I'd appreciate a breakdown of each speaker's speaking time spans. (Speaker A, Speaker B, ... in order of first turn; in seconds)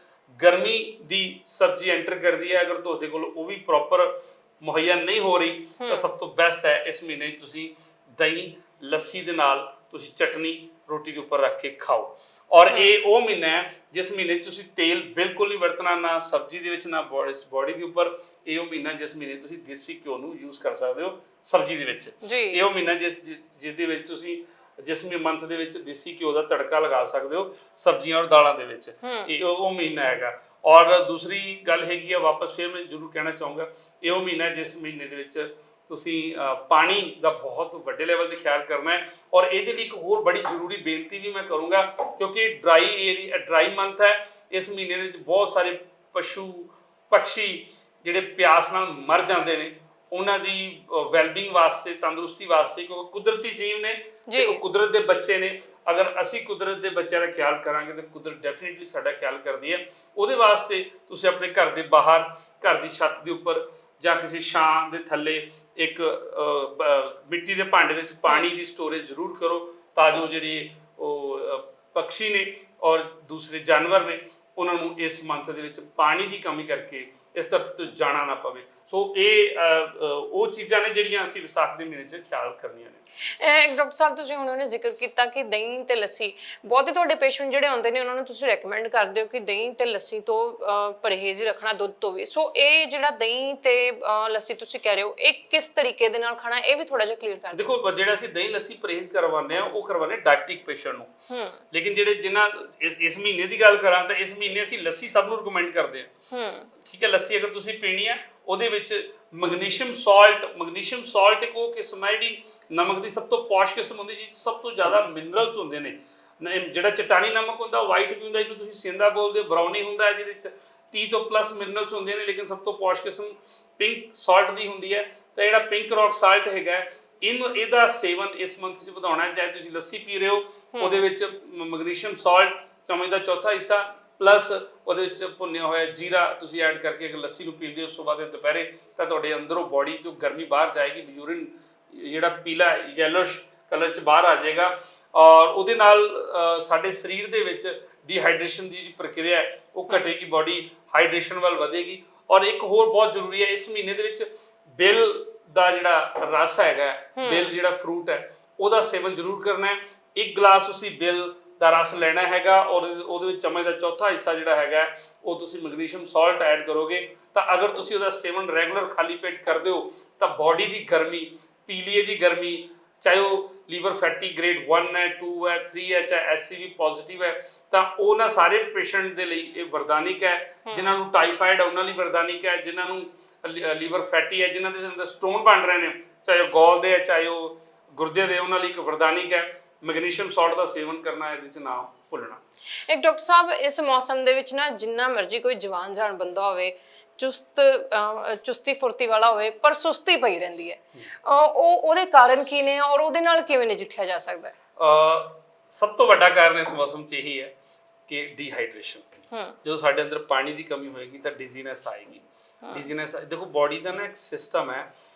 Speaker A: 0.4-83.0, 97.5-101.1, 101.7-106.1, 106.8-192.4, 204.8-207.5, 208.1-209.1, 209.6-214.9
Speaker B: 22.2-22.6, 29.0-29.3, 54.3-54.6, 83.4-97.7, 101.3-101.6, 106.3-106.7, 130.8-131.1, 157.2-157.5, 180.7-181.0, 192.9-204.5, 212.6-212.9